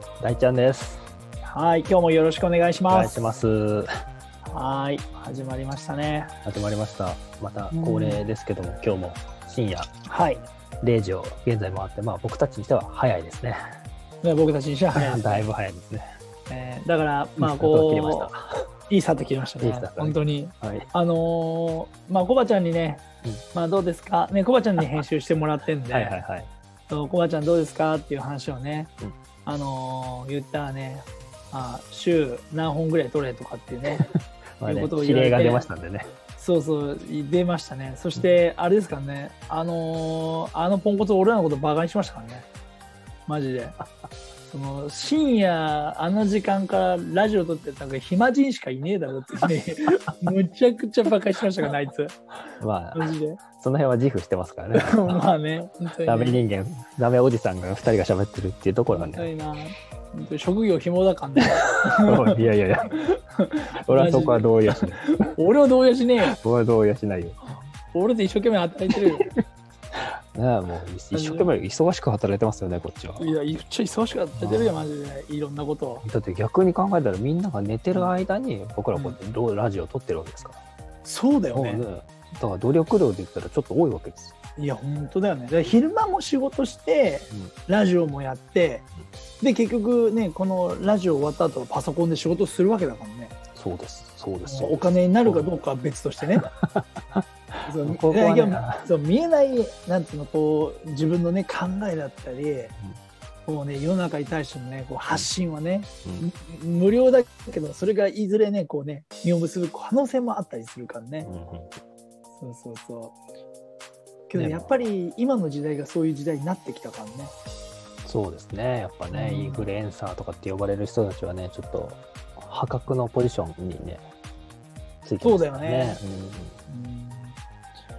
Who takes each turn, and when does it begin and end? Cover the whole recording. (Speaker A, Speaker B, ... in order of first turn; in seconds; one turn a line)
Speaker A: 0.2-1.0
Speaker B: 1.5-3.3
Speaker A: 2.9-3.9
Speaker B: 4.5-6.3
Speaker A: 6.5-9.9
Speaker B: 7.7-8.3
Speaker B: 10.1-10.5
Speaker A: 10.8-13.6
Speaker B: 14.2-15.4
Speaker A: 14.9-16.1
Speaker B: 16.5-18.3
Speaker A: 17.4-18.5
Speaker B: 18.9-26.2
Speaker A: 19.6-20.9
Speaker A: 25.9-26.5
Speaker B: 26.9-28.9
Speaker B: 29.5-34.1
Speaker A: 33.9-36.1
Speaker B: 34.6-35.7
Speaker B: 36.4-42.5
Speaker B: 43.3-43.8
Speaker B: 44.5-52.2
Speaker A: 52.6-55.2
Speaker B: 52.9-53.4
Speaker B: 54.8-56.4
Speaker A: 56.0-59.3
Speaker B: 58.9-62.4
Speaker A: 62.0-63.0
Speaker B: 62.9-66.4
Speaker A: 63.8-65.2
Speaker A: 66.3-67.5
Speaker B: 67.9-69.3
Speaker A: 70.0-73.3
Speaker B: 71.1-71.5
Speaker B: 73.2-76.0
Speaker A: 74.4-74.9
Speaker A: 76.0-80.6
Speaker B: 81.0-81.8
Speaker A: 81.5-84.3
Speaker B: 84.6-88.9
Speaker B: 89.4-93.3
Speaker A: 93.5-95.5
Speaker B: 94.5-96.5
Speaker A: 96.4-98.9
Speaker B: 97.7-102.7
Speaker B: 103.5-111.3
Speaker A: 111.2-111.8
Speaker B: 112.4-113.2
Speaker B: 114.3-117.3
Speaker A: 114.3-114.8
Speaker A: 118.0-124.0
Speaker B: 119.1-119.7
Speaker A: 125.0-126.6
Speaker B: 125.2-126.0
Speaker B: 126.7-127.4